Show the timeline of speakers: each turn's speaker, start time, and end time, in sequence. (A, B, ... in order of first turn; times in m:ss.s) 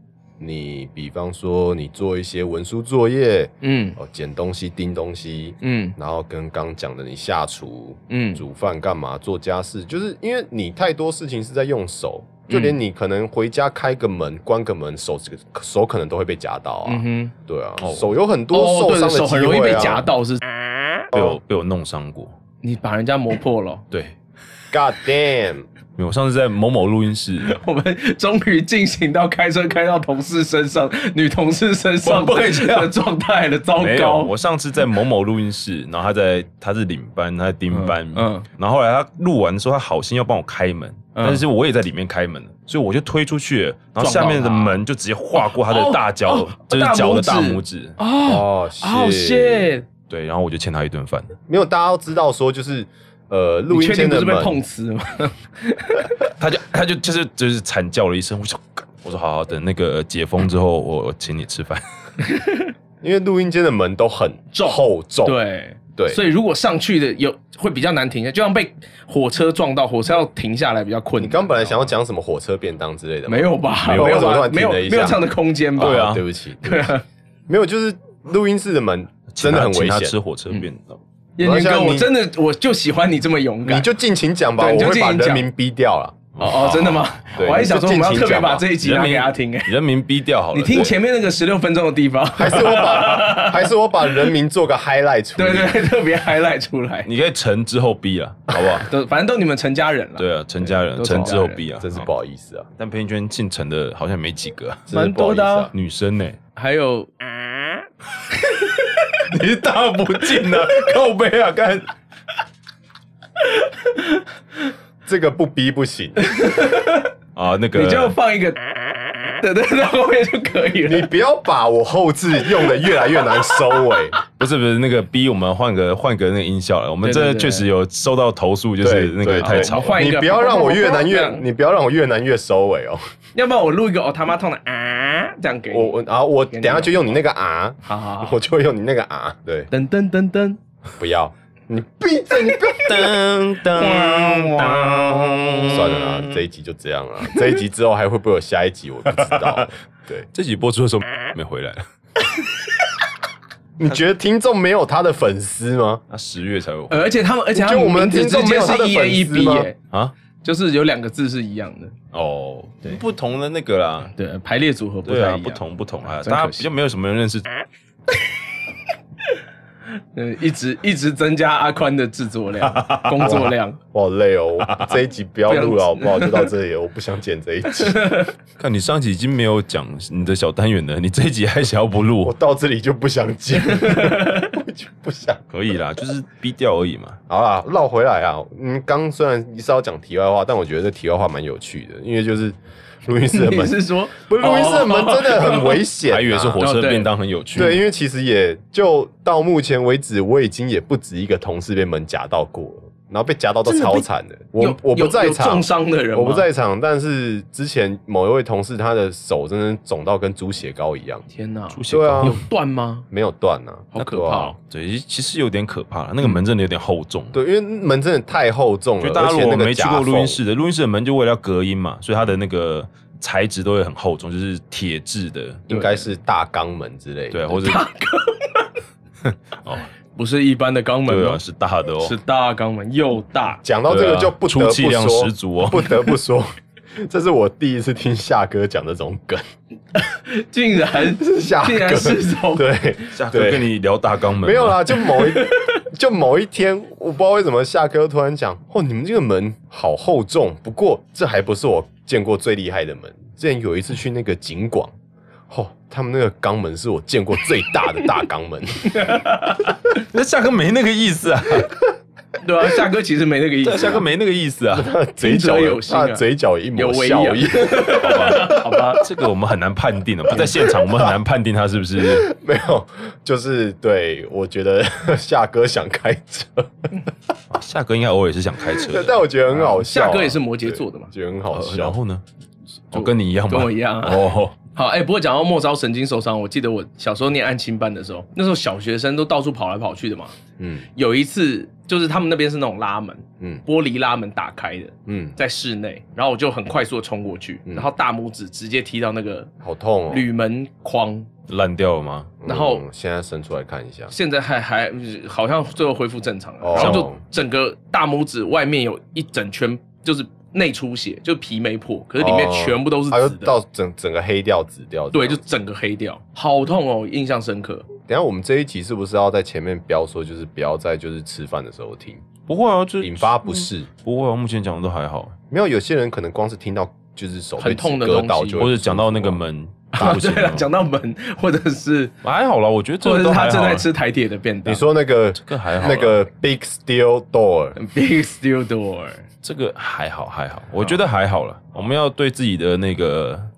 0:00.4-0:20.1 A
0:03.6-0:04.0 B
0:05.6-0:06.0 B
0:08.1-0:08.4 B
0:12.5-0:12.8 B
0:16.9-0:17.3 B
0:17.8-0:18.2 C
0:18.5-0:20.4 B
0:21.1-0:22.3 C
0:21.1-0:21.4 A
0:22.6-0:23.8 B
0:24.7-0:25.7 A
0:26.0-0:27.6 C
0:27.4-0:34.3 B
0:32.0-0:32.9 C
0:33.8-0:48.0 C
0:37.7-0:38.5 B
0:41.2-0:41.4 B
0:44.0-0:44.8 B
0:45.4-0:49.9 B
0:48.2-0:49.7 A
0:50.1-0:51.4 C
0:51.5-0:54.6 A
0:53.7-0:56.1 B
0:56.4-1:01.8 C
1:02.2-1:02.7 B
1:03.0-1:05.4 A
1:04.5-1:11.9 B
1:06.0-1:06.2 A
1:11.2-1:15.2 A
1:13.3-1:16.0 B
1:15.8-1:16.9 A
1:15.8-1:16.2 C
1:16.6-1:17.0 B
1:17.5-1:20.2 A
1:19.3-1:21.0 C
1:21.4-1:23.9 B
1:21.4-1:22.1 A
1:23.6-1:26.3 A
1:24.6-1:25.5 B
1:26.4-1:27.2 C
1:26.4-1:29.7 B
1:27.4-1:28.7 A
1:28.8-1:31.0 C
1:30.5-1:33.7 B
1:32.4-1:35.9 A
1:35.4-1:37.1 B
1:37.1-1:38.9 C
1:38.8-1:41.6 B
1:40.2-1:42.1 C
1:41.8-1:42.7 A
1:42.8-1:44.9 C
1:44.9-1:45.7 A
1:44.9-1:45.7 B
1:45.7-1:46.4 C
1:46.6-1:47.1 B
1:48.5-1:49.1 B
1:49.3-1:51.9 C
1:50.1-1:51.0 B
1:53.4-1:54.2 B
1:55.0-1:56.2 A
1:56.2-1:57.1 B
1:57.4-1:58.2 C
1:57.7-2:01.1 B
2:00.8-2:04.2 A
2:02.8-2:03.8 B
2:04.4-2:10.0 C
2:07.0-2:07.7 B
2:08.8-2:13.0 A
2:09.4-2:11.4 B
2:13.4-2:16.0 B
2:15.7-2:19.7 A
2:16.5-2:17.0 B
2:17.8-2:18.4 B
2:19.7-2:20.6 B
2:21.0-2:23.1 A
2:22.8-2:26.2 C
2:23.8-2:25.8 B
2:25.7-2:30.3 A
2:29.2-2:29.6 C
2:30.3-2:31.8 C
2:33.8-2:36.0 A
2:36.1-2:37.1 C
2:36.9-2:39.8 B
2:37.5-2:39.7 A
2:40.4-2:41.9 B
2:42.1-2:44.1 C
2:44.1-2:46.7 B
2:45.1-2:47.5 C
2:50.1-2:53.8 B
2:52.6-2:53.5 C
2:53.2-2:58.2 A
2:54.7-2:54.9 C
2:55.5-2:56.5 B
2:57.8-2:58.3 B
2:58.6-3:02.4 C
3:02.2-3:05.4 A
3:03.7-3:04.5 B
3:05.5-3:07.2 C
3:07.3-3:16.6 A
3:13.3-3:15.8 B
3:16.0-3:17.8 C
3:16.6-3:17.1 B
3:17.6-3:31.2 A
3:23.6-3:24.1 B
3:24.6-3:26.5 B
3:31.3-3:33.0 B
3:31.7-3:32.4 C
3:31.9-3:32.4 A
3:33.1-3:34.6 A
3:33.9-3:34.6 B
3:34.7-3:37.3 C
3:37.3-3:40.4 A
3:39.0-3:45.6 C
3:45.7-3:47.8 A
3:45.7-3:46.1 B
3:47.3-3:47.8 C
3:47.6-3:48.7 B
3:49.3-3:49.9 C
3:50.2-3:51.4 B
3:51.1-3:52.2 C
3:52.0-3:53.6 B
3:53.6-3:59.4 A
3:53.9-3:56.0 C
3:59.9-4:02.7 B
4:00.9-4:03.7 A
4:03.1-4:04.8 C
4:04.4-4:14.9 A
4:05.2-4:05.7 B
4:15.5-4:19.2 A
4:18.9-4:19.8 B
4:19.9-4:21.8 C
4:22.4-4:24.0 B
4:23.6-4:24.9 C
4:24.7-4:28.8 A
4:25.2-4:26.2 B
4:26.8-4:29.0 B
4:27.9-4:32.3 C
4:30.3-4:31.2 A
4:32.0-4:37.0 A
4:37.5-4:39.2 C
4:38.7-4:42.0 A
4:39.6-4:41.1 B
4:41.5-4:42.2 C
4:42.9-4:44.6 C
4:42.9-4:50.4 B
4:50.6-4:50.9 A
4:51.0-4:59.5 B
4:55.1-4:55.4 A
4:59.6-5:00.2 A
5:00.1-5:01.3 B
5:01.5-5:02.3 C
5:02.4-5:04.1 A
5:02.4-5:02.8 B
5:04.1-5:13.6 B
5:06.6-5:07.2 A
5:06.8-5:07.1 C
5:12.2-5:15.4 A
5:15.1-5:17.9 B
5:18.1-5:22.2 A
5:22.5-5:25.3 C
5:23.0-5:23.9 A
5:25.5-5:29.4 A
5:27.6-5:28.6 B
5:28.6-5:30.7 C
5:29.9-5:32.1 B
5:32.2-5:33.9 C
5:33.0-5:34.8 B
5:34.6-5:37.8 A
5:35.4-5:36.2 C
5:37.8-5:39.2 B
5:39.4-5:43.5 C